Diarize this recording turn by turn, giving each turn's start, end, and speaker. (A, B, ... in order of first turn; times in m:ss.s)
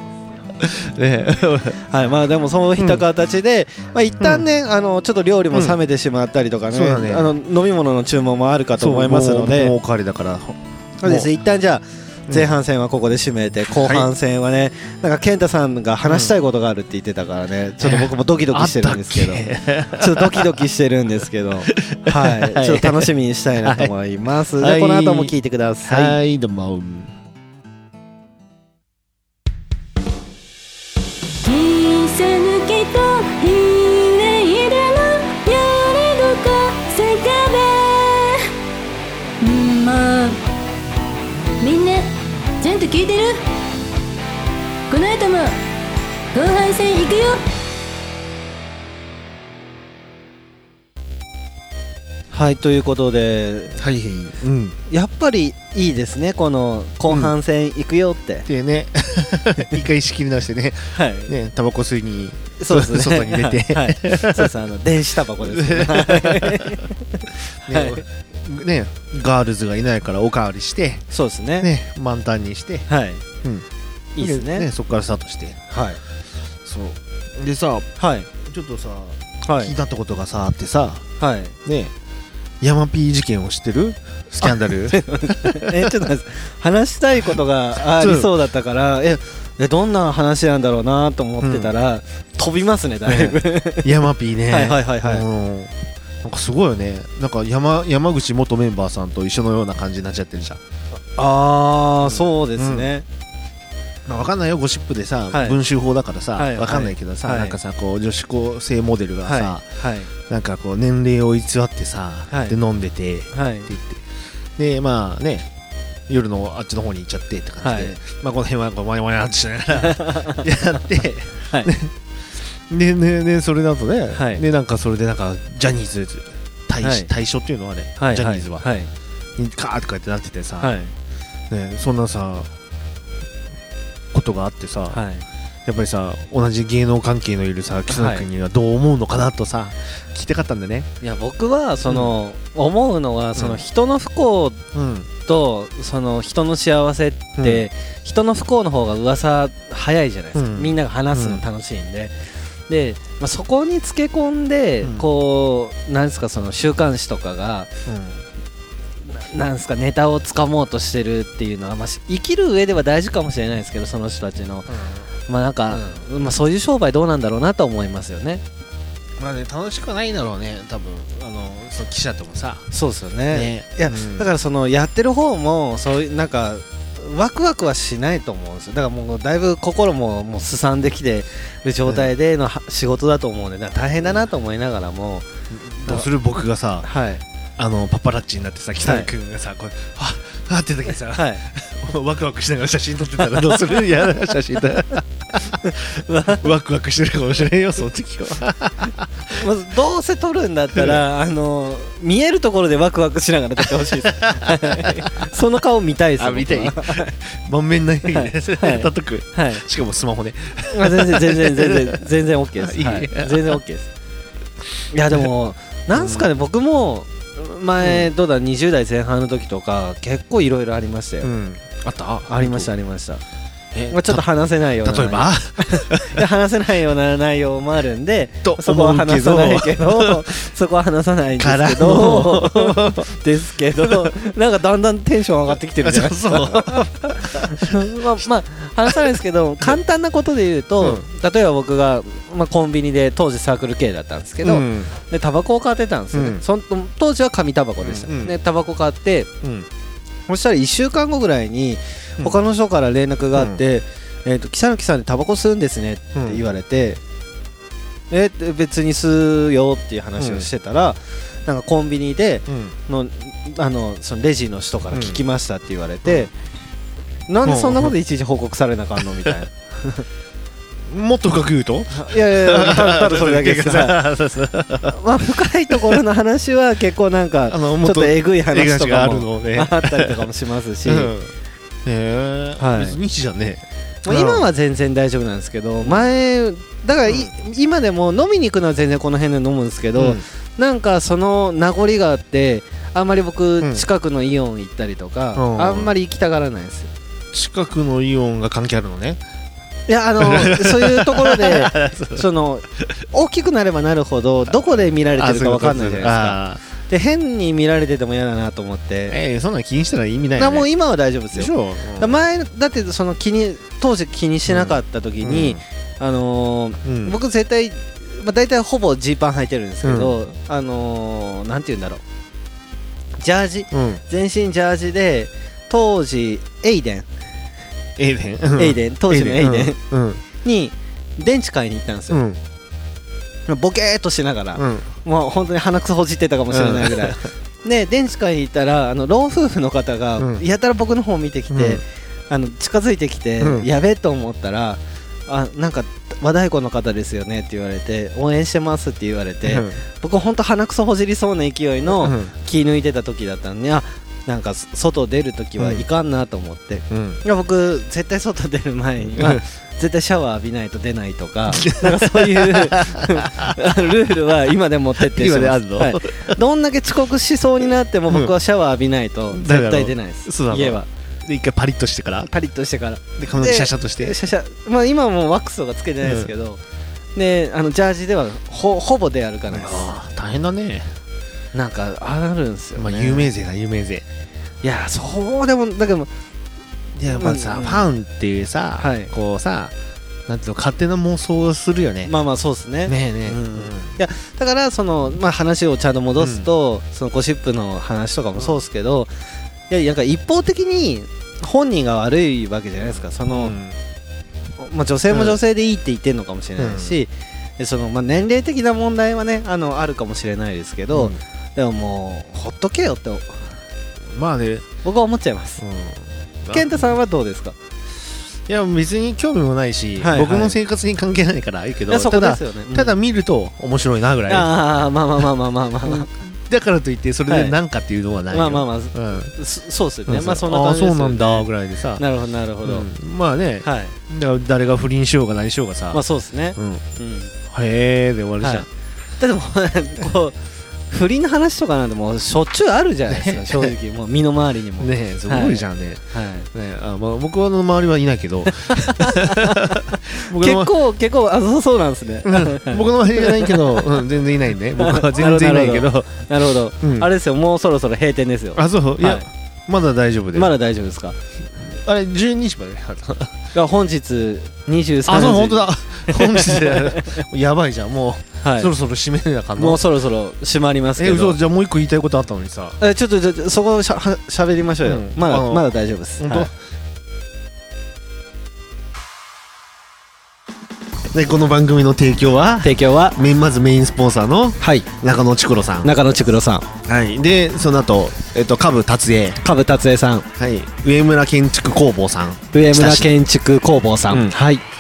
0:00.6-0:01.8 A
0:01.9-0:09.8 B
0:02.8-0:03.0 A
0:04.2-0:04.5 A
0:05.5-0:05.8 A
0:06.7-0:07.3 A
0:08.8-0:11.3 A
0:11.0-0:26.2 B
0:12.3-0:12.6 A
0:13.8-0:14.1 A
0:16.1-0:16.4 A
0:17.8-0:20.6 A
0:21.7-0:23.1 A
0:23.6-0:23.9 A
0:24.6-0:27.1 A
0:31.4-0:38.5 C
0:39.4-0:40.4 C
0:41.6-0:43.5 C
0:44.9-0:45.6 C
0:46.3-0:47.4 C
0:52.3-0:53.8 B
0:53.8-0:54.8 A
0:54.9-0:58.5 B
0:57.1-0:57.3 A
0:58.5-1:04.6 A
1:00.9-1:01.3 B
1:02.6-1:08.0 B
1:05.4-1:06.8 A
1:07.7-1:11.1 A
1:11.1-1:11.7 B
1:11.6-1:12.9 A
1:12.9-1:13.2 B
1:14.2-1:14.7 B
1:14.2-1:15.6 A
1:15.7-1:16.0 B
1:16.6-1:21.0 A
1:18.0-1:18.3 B
1:19.4-1:19.7 B
1:21.2-1:21.6 B
1:21.6-1:21.9 A
1:22.6-1:25.9 A
1:24.4-1:34.0 B
1:27.9-1:28.3 A
1:31.4-1:31.7 A
1:33.1-1:40.6 A
1:34.5-1:35.2 B
1:41.2-1:43.0 B
1:42.0-1:42.9 A
1:44.1-1:49.6 A
1:45.3-1:45.6 B
1:46.4-1:47.6 B
1:49.2-1:50.1 B
1:50.2-1:54.0 A
1:52.3-1:52.6 B
1:53.3-1:53.7 B
1:54.6-1:55.5 A
1:56.1-2:01.9 A
1:57.6-1:58.0 B
1:59.8-2:00.4 B
2:02.5-2:08.7 A
2:04.1-2:04.4 B
2:06.8-2:07.1 B
2:08.0-2:08.9 B
2:09.4-2:10.7 A
2:10.6-2:10.9 B
2:11.5-2:12.5 A
2:14.1-2:15.0 A
2:14.9-2:15.2 B
2:15.7-2:20.9 A
2:17.9-2:18.2 B
2:21.0-2:24.6 B
2:24.7-2:25.1 A
2:25.2-2:32.2 B
2:27.4-2:27.7 A
2:30.4-2:31.4 A
2:32.7-2:37.7 B
2:34.8-2:35.1 A
2:37.9-2:38.2 A
2:39.1-2:44.7 B
2:44.7-2:45.0 A
2:45.3-2:48.4 B
2:45.7-2:46.0 A
2:49.2-2:52.7 A
2:52.7-3:05.3 B
2:53.3-2:54.3 A
3:05.5-3:06.9 A
3:06.8-3:07.2 B
3:07.6-3:19.4 A
3:08.8-3:09.1 B
3:11.1-3:11.4 B
3:15.5-3:16.4 B
3:19.3-3:27.1 B
3:20.8-3:21.0 A
3:23.8-3:25.3 A
3:26.2-3:32.0 A
3:28.1-3:29.6 B
3:30.7-3:33.9 B
3:32.6-3:33.6 A
3:34.9-3:41.3 B
3:35.9-3:36.3 A
3:37.8-3:38.1 A
3:41.2-3:42.7 A
3:42.3-3:43.2 B
3:43.7-3:44.2 A
3:43.9-4:09.3 B
3:44.8-3:46.2 A
3:48.4-3:50.3 A
3:51.4-3:53.1 A
3:53.8-3:54.1 A
3:55.8-3:57.8 A
4:04.4-4:04.9 A
4:06.1-4:06.4 A
4:07.8-4:08.4 A
4:09.4-4:09.7 A
4:10.3-4:17.0 B
4:13.4-4:13.6 A
4:16.2-4:16.4 A
4:18.1-4:26.3 B
4:20.2-4:20.5 A
4:22.5-4:22.8 A
4:24.9-4:25.2 A
4:27.3-4:30.1 B
4:27.4-4:28.0 A
4:30.9-4:35.0 A
4:31.9-4:34.0 B
4:34.9-4:41.1 B
4:35.7-4:36.0 A
4:37.5-4:40.3 A
4:40.8-4:41.3 A
4:41.8-4:44.5 A
4:42.6-4:43.0 B
4:44.0-4:56.9 B
4:50.0-4:50.2 A
4:55.4-4:55.9 A
4:57.3-4:59.2 A
4:59.9-5:09.2 B
5:00.2-5:02.3 A
5:04.5-5:06.6 A
5:09.1-5:10.7 A
5:10.4-5:22.0 B
5:11.3-5:12.2 A
5:14.5-5:15.6 A
5:16.8-5:17.2 A
5:19.8-5:20.2 A
5:23.2-5:27.1 B
5:23.7-5:24.0 A
5:28.0-5:30.2 A
5:28.6-5:29.8 B
5:30.4-5:32.2 B
5:32.1-5:32.4 A
5:33.5-6:10.9 B
5:34.6-5:34.9 A
5:36.5-5:37.2 A
5:40.2-5:40.4 A
5:41.5-5:41.8 A
5:43.4-5:43.7 A
5:49.4-5:49.8 A
5:52.0-5:52.3 A
5:55.6-5:55.8 A
5:56.9-5:57.2 A
5:59.2-5:59.4 A
6:01.5-6:03.6 A
6:05.0-6:06.4 A
6:09.3-6:12.3 A
6:12.3-6:16.6 B
6:13.2-6:14.2 A
6:16.0-6:16.3 A
6:17.2-6:19.9 B
6:19.5-6:20.9 A
6:21.5-6:23.3 B
6:22.8-6:24.0 A
6:24.6-6:26.1 B
6:27.0-6:29.7 A
6:27.1-6:27.9 B
6:28.8-6:29.1 B
6:30.3-6:32.1 A
6:32.0-6:39.1 B
6:32.9-6:34.0 A
6:36.2-6:36.5 A
6:39.7-6:43.6 B
6:43.3-6:43.8 A
6:44.6-6:53.5 B
6:45.1-6:45.4 A
6:46.6-6:47.0 A
6:50.9-6:51.2 A
6:54.1-6:54.7 A
6:54.8-6:55.6 B
6:55.6-6:56.8 A
6:56.5-6:57.6 B
6:58.5-7:04.5 A
7:00.0-7:00.6 B
7:01.9-7:03.0 B
7:04.3-7:06.1 B
7:05.8-7:09.3 A
7:07.3-7:07.6 B
7:08.3-7:12.9 B
7:10.1-7:12.0 A
7:12.6-7:16.0 A
7:13.6-7:14.0 B
7:15.9-7:17.3 B
7:16.6-7:16.9 A
7:17.5-7:18.7 A
7:18.4-7:18.7 B
7:19.2-7:20.4 B
7:20.9-7:26.5 B
7:23.1-7:23.7 A
7:24.8-7:30.7 A
7:28.7-7:34.0 B
7:32.2-7:36.2 A
7:34.8-7:39.3 B
7:36.8-7:37.1 A
7:38.6-7:40.5 A
7:40.4-7:41.2 B
7:41.6-7:43.4 A
7:43.5-7:47.2 B
7:45.1-7:49.8 A
7:48.4-7:48.7 B
7:49.6-7:51.4 B
7:51.0-7:52.8 A
7:52.8-7:56.5 B
7:54.8-7:56.5 A
8:01.1-8:05.9 A
8:02.6-8:03.2 B
8:04.6-8:04.9 B
8:05.8-8:06.7 B
8:06.8-8:09.4 A
8:09.4-8:10.3 B
8:10.4-8:13.1 A
8:12.5-8:14.6 B
8:14.1-8:14.4 A